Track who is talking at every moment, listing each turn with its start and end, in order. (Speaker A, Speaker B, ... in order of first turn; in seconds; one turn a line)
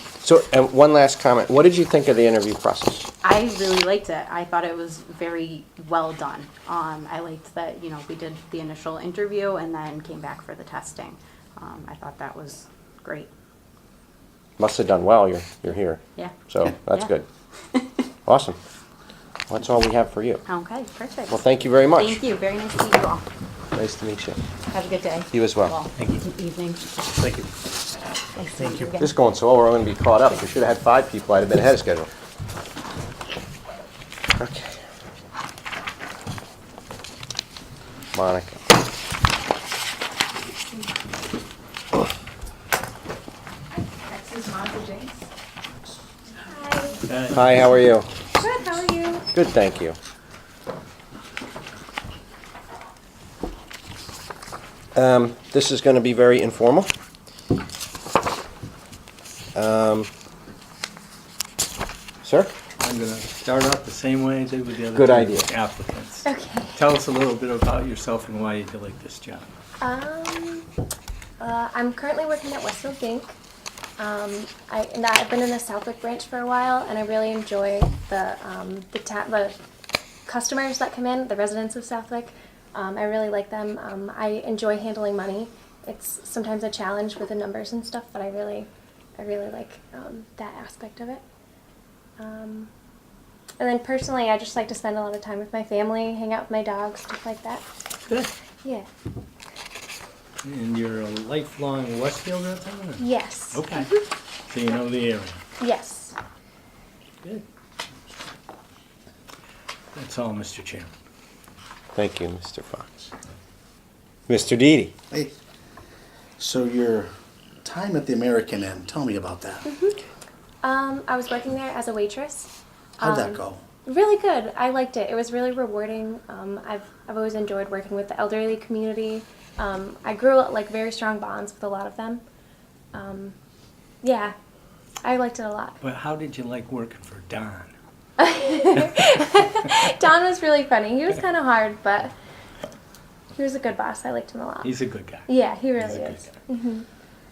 Speaker A: 0.2-3.1
Speaker B: 3.2-13.3
Speaker A: 14.6-17.3
Speaker B: 16.2-17.1
Speaker A: 18.3-18.6
Speaker A: 19.5-20.4
Speaker B: 20.5-21.4
Speaker A: 21.3-22.2
Speaker B: 21.9-23.3
Speaker A: 23.7-24.4
Speaker B: 24.7-26.9
Speaker A: 25.3-25.7
Speaker C: 27.2-27.5
Speaker B: 28.4-29.1
Speaker A: 29.0-32.1
Speaker A: 34.4-34.7
Speaker A: 38.1-38.6
Speaker D: 46.4-47.0
Speaker C: 47.1-47.4
Speaker A: 47.3-48.1
Speaker D: 48.4-49.2
Speaker A: 49.3-50.0
Speaker A: 55.0-56.9
Speaker A: 59.5-60.1
Speaker A: 62.2-62.5
Speaker C: 62.8-69.5
Speaker A: 64.9-65.5
Speaker D: 66.2-66.8
Speaker D: 69.8-70.7
Speaker D: 71.4-73.4
Speaker D: 74.0-79.6
Speaker D: 80.3-91.2
Speaker D: 92.2-92.7
Speaker D: 93.6-97.7
Speaker C: 100.4-105.4
Speaker D: 103.0-104.0
Speaker D: 105.6-106.2
Speaker C: 110.0-110.9
Speaker A: 112.0-113.1
Speaker A: 114.3-114.9
Speaker E: 116.4-117.1
Speaker E: 117.6-119.7
Speaker D: 119.7-120.0
Speaker D: 120.6-132.2
Speaker E: 123.0-123.6
Speaker D: 132.9-133.3
Speaker D: 134.0-134.3
Speaker D: 135.0-135.8
Speaker C: 135.8-137.7
Speaker D: 138.2-142.1
Speaker D: 143.3-146.8
Speaker C: 144.6-146.3